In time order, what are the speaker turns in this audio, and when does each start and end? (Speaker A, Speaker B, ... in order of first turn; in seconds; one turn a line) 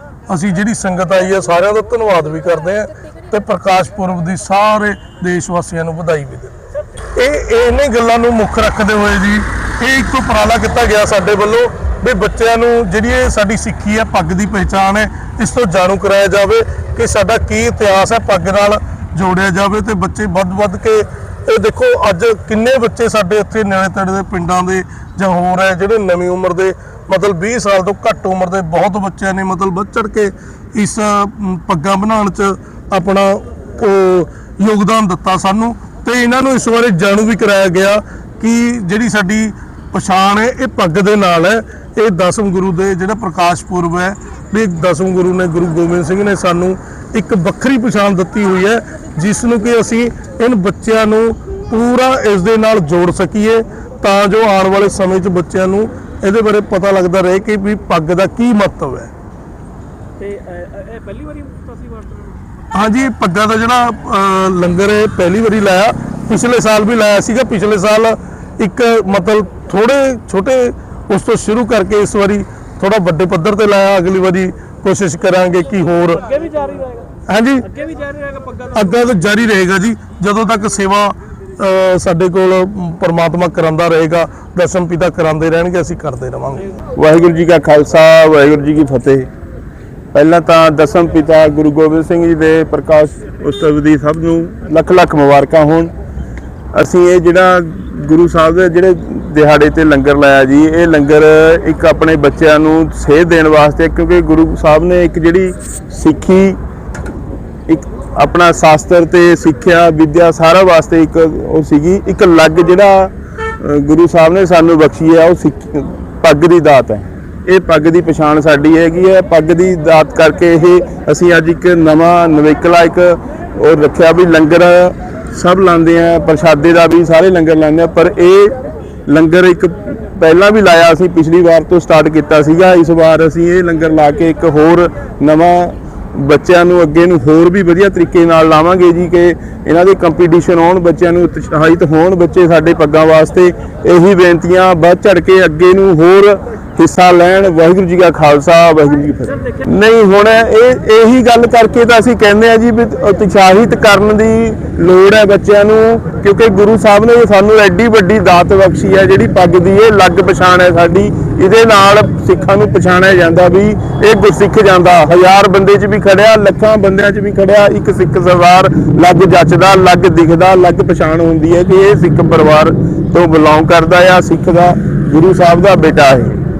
Speaker A: 0.3-6.5
Speaker A: 7.2-59.1
Speaker B: 60.2-62.2
Speaker A: 62.7-76.3
Speaker B: 76.3-77.1
Speaker A: 77.3-77.7
Speaker B: 77.7-78.7
Speaker A: 78.7-86.7
Speaker C: 87.0-89.3
Speaker C: 90.1-95.9
Speaker C: 96.7-106.6
Speaker C: 107.7-128.5
Speaker C: 129.1-176.4